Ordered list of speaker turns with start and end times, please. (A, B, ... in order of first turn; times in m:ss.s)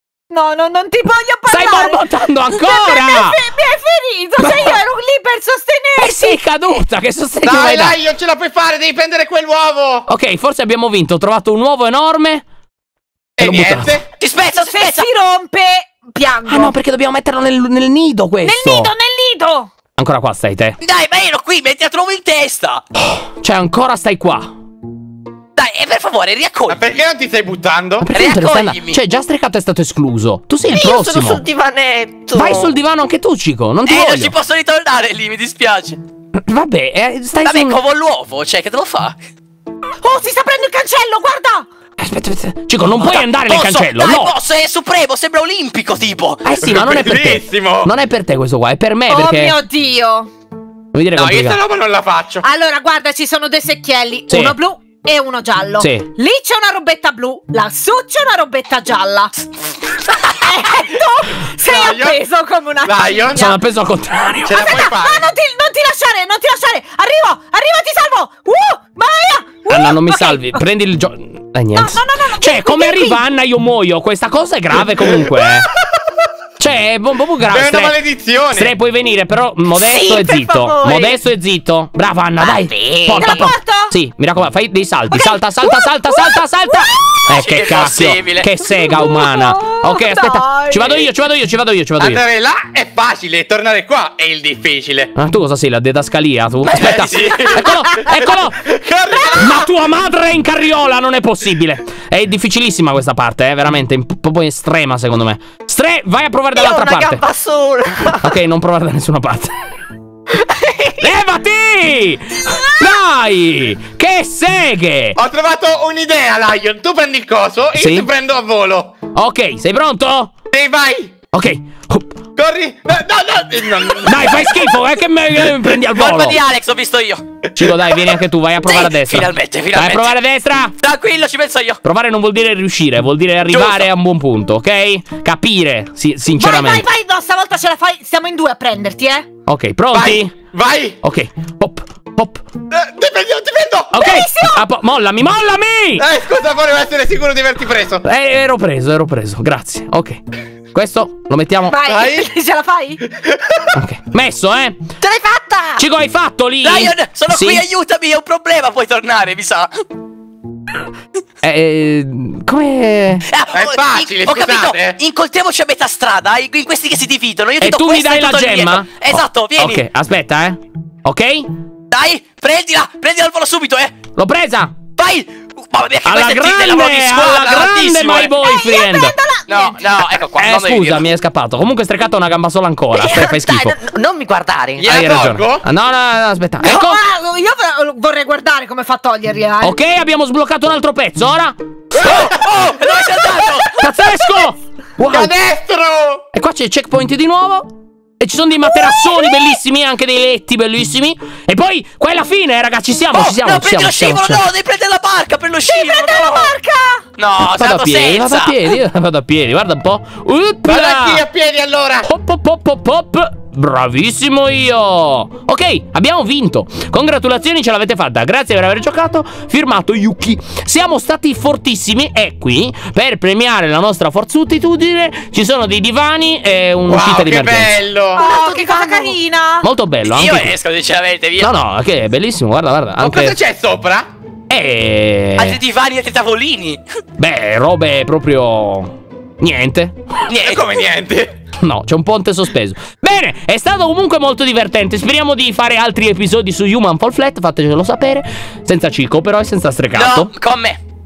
0:00.3-0:06.4 A
0:01.5-0:03.4 B
0:04.4-0:04.8 B
0:06.0-0:08.0 B
0:07.4-0:10.1 C
0:10.1-0:12.4 B
0:13.4-0:14.0 B
0:13.4-0:14.0 C
0:14.2-0:15.1 D
0:14.5-0:16.7 A
0:16.4-0:18.9 B
0:18.4-0:19.7 A
0:20.0-0:20.8 B
0:20.8-0:22.8 D
0:23.1-0:24.5 B
0:25.6-0:26.8 D
0:26.7-0:28.1 C
0:28.0-0:31.4 B
0:28.1-0:29.0 D
0:30.7-0:32.7 E
0:32.3-0:34.3 B
0:33.8-0:36.0 D
0:36.4-0:37.8 B
0:37.4-0:39.2 D
0:40.0-0:41.7 A
0:42.0-0:44.3 B
0:42.9-0:46.4 D
0:46.4-0:49.6 B
0:46.6-0:47.9 C
0:49.1-0:50.3 A
0:50.9-0:51.6 B
0:51.1-0:52.4 C
0:52.4-0:59.3 A
0:54.3-0:54.6 B
0:55.8-0:56.1 B
1:00.2-1:03.5 A
1:01.6-1:02.2 C
1:02.8-1:03.6 C
1:03.3-1:04.7 B
1:04.4-1:05.3 C
1:04.5-1:10.6 A
1:09.7-1:15.7 B
1:11.7-1:13.2 A
1:15.0-1:15.4 C
1:16.6-1:18.0 B
1:17.5-1:18.7 C
1:18.5-1:32.2 B
1:19.7-1:21.2 E
1:22.4-1:23.5 E
1:23.1-1:23.9 A
1:25.1-1:27.0 A
1:27.3-1:28.6 D
1:28.9-1:31.1 A
1:32.0-1:35.1 C
1:35.2-1:38.7 B
1:36.7-1:37.7 D
1:36.8-1:39.7 C
1:39.3-1:47.2 B
1:46.5-1:48.3 E
1:48.2-1:49.5 B
1:50.3-1:51.1 E
1:51.0-1:55.2 B
1:55.2-1:58.9 C
1:57.8-1:58.1 B
1:59.1-2:00.3 B
2:00.5-2:01.1 C
2:01.3-2:02.2 B
2:02.4-2:04.6 C
2:04.0-2:06.4 B
2:05.5-2:07.2 D
2:07.6-2:10.8 B
2:07.6-2:07.9 C
2:08.6-2:10.1 D
2:10.8-2:11.8 D
2:11.8-2:16.8 B
2:13.5-2:13.9 D
2:16.4-2:19.3 A
2:19.4-2:20.3 B
2:19.9-2:21.0 C
2:21.0-2:22.5 B
2:22.7-2:23.9 C
2:23.9-2:26.0 B
2:23.9-2:24.6 A
2:26.0-2:28.0 C
2:28.0-2:30.2 B
2:30.7-2:31.8 B
2:31.7-2:33.0 A
2:31.8-2:32.3 C
2:33.0-2:33.7 C
2:33.7-2:34.8 B
2:35.0-2:35.8 E
2:35.8-2:37.6 B
2:36.6-2:39.8 D
2:41.4-2:43.2 B
2:43.3-2:49.8 D
2:43.5-2:45.0 C
2:47.6-2:51.5 B
2:51.9-2:53.9 D
2:54.2-2:54.8 B
2:55.0-2:58.3 D
2:56.0-2:59.2 B
2:58.3-2:59.8 A
2:59.5-3:01.0 D
3:00.1-3:03.7 B
3:02.9-3:04.9 E
3:04.8-3:05.6 C
3:04.8-3:07.0 B
3:06.6-3:09.8 A
3:09.6-3:12.2 B
3:12.0-3:13.8 D
3:13.7-3:15.3 B
3:15.0-3:16.2 C
3:16.3-3:24.4 B
3:23.1-3:26.5 D
3:25.6-3:27.0 A
3:27.2-3:28.7 D
3:27.5-3:31.2 B
3:30.6-3:32.1 C
3:32.0-3:47.8 B
3:46.9-3:48.2 C
3:48.2-3:49.7 A
3:48.2-3:49.2 E
3:49.6-3:50.5 B
3:50.0-3:51.5 D
3:51.4-3:53.4 B
3:53.0-3:54.1 C
3:54.5-3:55.6 B
3:55.4-3:56.8 D
3:57.2-4:00.0 B
4:00.3-4:00.6 D
4:00.4-4:01.3 C
4:01.6-4:10.3 B
4:09.9-4:10.8 D